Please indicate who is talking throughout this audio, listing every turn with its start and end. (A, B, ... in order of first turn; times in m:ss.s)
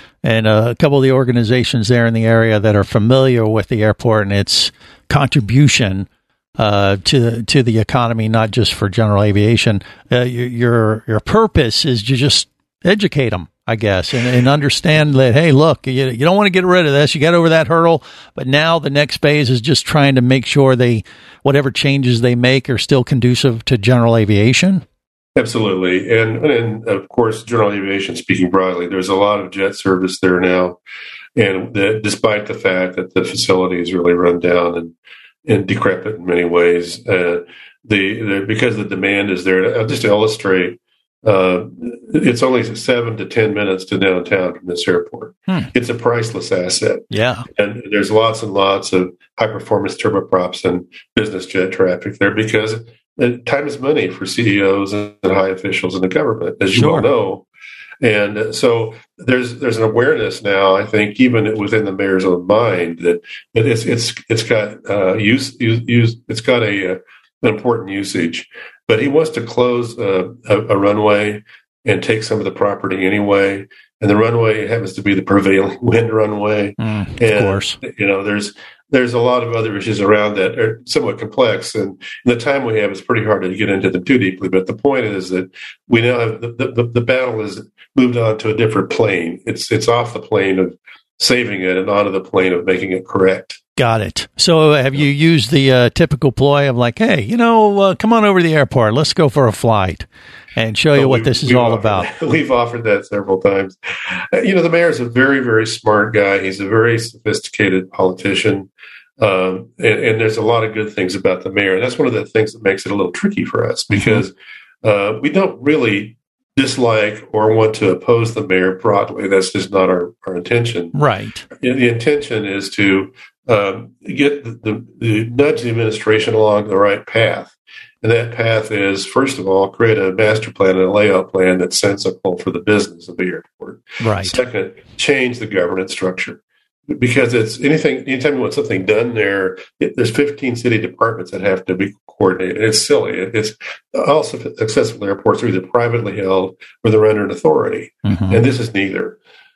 0:00.2-0:06.1 A
0:06.6-0:24.8 A
0:25.4-0:30.8 B
0:31.4-0:34.9 B
0:35.5-0:57.5 B
0:47.1-0:47.4 A
0:56.7-0:57.1 A
0:58.0-1:33.6 B
1:16.8-1:17.8 A
1:33.8-1:42.1 A
1:41.0-1:43.8 B
1:44.3-2:00.9 B
1:53.9-1:54.2 A
2:00.9-2:01.4 A
2:01.6-2:16.4 B
2:14.0-2:14.4 A
2:16.9-2:29.2 B
2:28.1-2:28.4 A